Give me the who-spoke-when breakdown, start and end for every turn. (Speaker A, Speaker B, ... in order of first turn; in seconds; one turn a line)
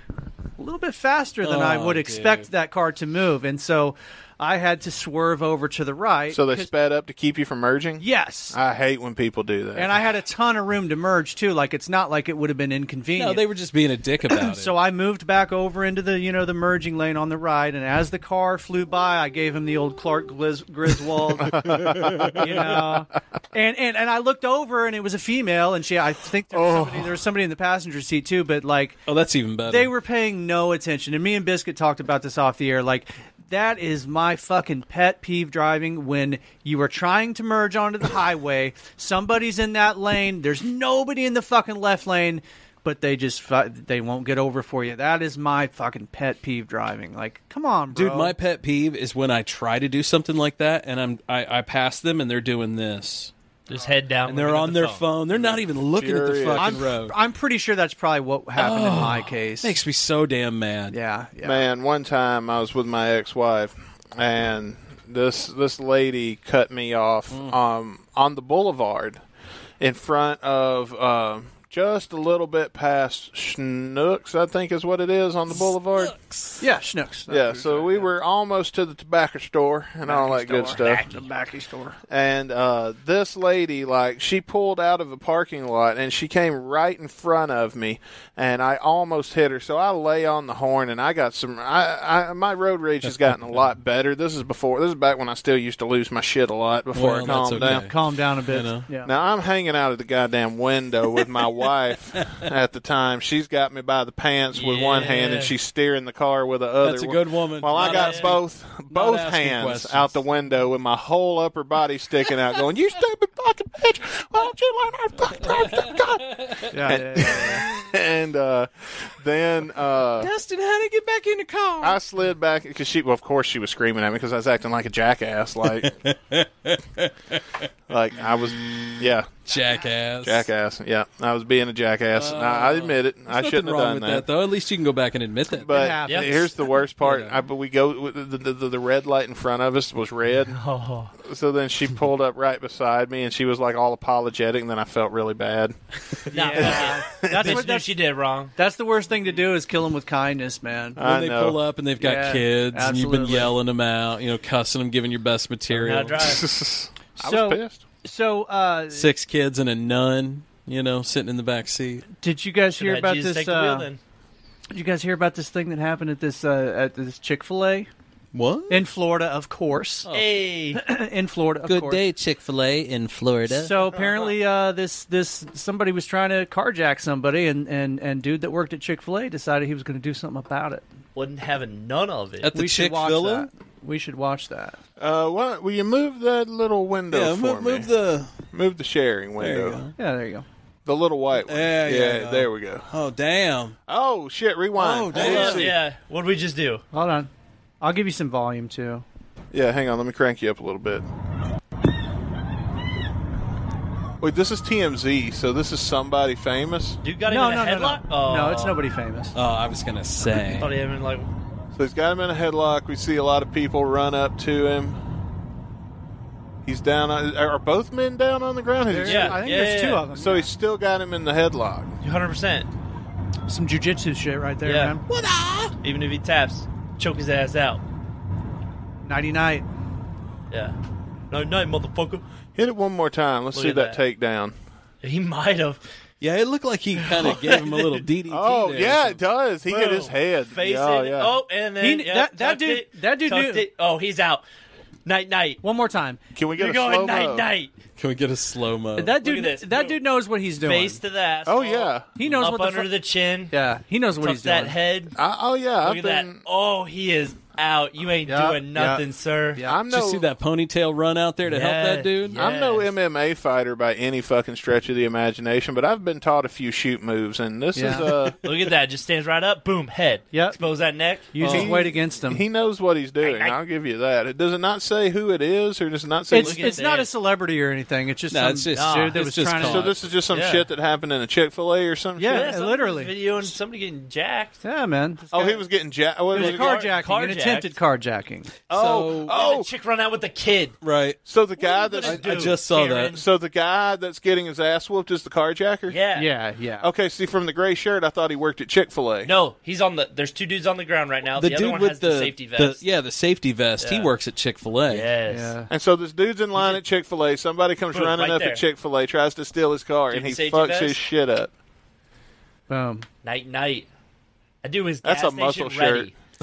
Speaker A: 0.6-6.7
Speaker B: 1.4-2.5
Speaker C: 6.3-10.0
Speaker A: 8.0-8.6
Speaker A: 9.7-13.4
Speaker B: 13.1-14.7
Speaker A: 14.3-29.0
Speaker C: 21.4-22.9
Speaker B: 21.9-22.4
Speaker C: 26.5-27.1
Speaker B: 29.1-29.9
Speaker A: 29.7-48.3
Speaker B: 47.9-53.3
Speaker D: 53.7-55.0
Speaker B: 54.2-57.1
Speaker C: 55.3-56.8
Speaker A: 56.5-59.8
Speaker B: 58.6-61.0
Speaker A: 60.9-61.6
Speaker C: 61.4-69.2
Speaker C: 69.8-76.2
Speaker B: 75.6-76.6
Speaker A: 76.6-78.0
Speaker C: 77.3-81.0
Speaker A: 80.0-82.0
Speaker C: 82.1-97.8
Speaker B: 96.9-98.8
Speaker A: 97.3-99.1
Speaker C: 99.0-120.3
Speaker D: 104.5-105.5
Speaker B: 106.8-110.2
Speaker D: 107.7-108.3
Speaker B: 115.5-116.7
Speaker A: 116.7-117.7
Speaker B: 120.2-122.0
Speaker C: 121.8-125.9
Speaker B: 125.8-127.6
Speaker C: 127.9-129.5
Speaker B: 129.5-130.5
Speaker C: 130.2-134.3
Speaker B: 132.1-135.9
Speaker C: 135.6-140.6
Speaker A: 135.7-136.5
Speaker D: 136.1-136.4
Speaker B: 137.0-137.4
Speaker D: 140.5-141.1
Speaker C: 141.2-145.8
Speaker D: 146.3-148.5
Speaker A: 146.3-148.0
Speaker C: 146.5-147.7
Speaker A: 148.5-151.0
Speaker C: 150.9-151.6
Speaker B: 151.0-156.2
Speaker A: 152.0-153.5
Speaker D: 155.7-156.4
Speaker C: 156.2-157.8
Speaker A: 157.2-159.1
Speaker B: 158.9-162.1
Speaker A: 162.2-163.9
Speaker D: 162.8-164.0
Speaker A: 164.7-167.9
Speaker B: 168.3-168.9
Speaker A: 168.7-170.1
Speaker B: 170.1-170.5
Speaker D: 170.1-170.8
Speaker A: 170.7-172.0
Speaker B: 171.6-173.8
Speaker A: 173.5-180.8
Speaker D: 173.9-174.3
Speaker D: 181.1-182.5
Speaker B: 182.4-183.5
Speaker A: 182.5-184.8
Speaker C: 185.0-187.9
Speaker B: 187.1-188.3
Speaker C: 188.5-189.8
Speaker B: 189.4-189.9
Speaker A: 190.0-190.4
Speaker C: 190.8-192.9
Speaker B: 191.4-193.8
Speaker C: 193.9-195.8
Speaker B: 194.8-195.8
Speaker D: 195.1-196.8
Speaker A: 196.9-197.3
Speaker A: 197.8-199.0
Speaker C: 199.5-201.1
Speaker C: 204.2-207.0
Speaker D: 207.0-208.8
Speaker A: 207.3-209.3
Speaker B: 209.3-210.7
Speaker D: 210.4-211.3
Speaker C: 211.7-215.0
Speaker C: 216.6-219.4
Speaker A: 218.9-220.5
Speaker D: 219.0-220.1
Speaker C: 220.2-221.9
Speaker D: 222.0-222.7
Speaker A: 223.5-225.0
Speaker D: 224.6-225.0
Speaker C: 225.2-225.6
Speaker D: 225.8-227.8
Speaker A: 229.0-229.7
Speaker D: 230.5-230.8
Speaker D: 231.3-232.2
Speaker C: 232.5-234.5
Speaker D: 233.5-234.0
Speaker D: 235.0-235.8
Speaker B: 236.2-239.2
Speaker D: 237.2-238.0
Speaker C: 238.3-241.3
Speaker D: 239.7-244.4
Speaker A: 241.8-243.7
Speaker D: 245.0-245.6
Speaker A: 245.6-246.2
Speaker C: 246.3-247.5
Speaker D: 246.6-247.7
Speaker B: 248.0-249.2
Speaker A: 249.0-251.0
Speaker D: 249.2-250.0
Speaker D: 250.6-253.5
Speaker C: 251.4-252.1
Speaker A: 252.2-252.9
Speaker A: 253.5-254.8
Speaker D: 254.2-255.1
Speaker C: 255.2-256.4
Speaker D: 255.8-259.6
Speaker A: 258.2-259.8
Speaker C: 259.6-260.3
Speaker B: 259.9-262.4
Speaker D: 261.4-262.9
Speaker C: 262.3-268.4
Speaker A: 267.7-268.1
Speaker D: 268.4-271.3
Speaker A: 270.3-270.6
Speaker A: 271.3-272.4
Speaker B: 271.4-271.7
Speaker C: 271.4-276.8
Speaker D: 273.2-273.6
Speaker A: 276.3-279.9
Speaker D: 276.3-277.1
Speaker B: 278.3-279.9
Speaker D: 278.7-279.6
Speaker C: 279.6-282.5
Speaker D: 280.3-280.7
Speaker A: 282.2-283.2
Speaker D: 282.3-284.6
Speaker A: 284.6-285.6
Speaker C: 285.3-286.8
Speaker A: 286.3-288.6
Speaker D: 286.3-287.7
Speaker B: 288.7-289.3
Speaker C: 288.7-289.7
Speaker D: 289.2-290.8
Speaker B: 290.8-291.2
Speaker C: 291.2-292.6
Speaker D: 291.6-293.2
Speaker B: 292.0-293.1
Speaker C: 293.1-296.0
Speaker D: 295.9-296.3
Speaker A: 296.1-296.9
Speaker C: 296.8-299.3
Speaker D: 299.2-302.8
Speaker B: 301.3-305.1
Speaker D: 303.8-304.1
Speaker D: 304.9-305.5
Speaker A: 305.3-305.7
Speaker C: 305.7-311.5
Speaker D: 307.9-308.6
Speaker D: 310.1-311.0
Speaker A: 312.7-313.1
Speaker D: 313.2-313.9
Speaker D: 314.6-316.1
Speaker C: 315.0-316.1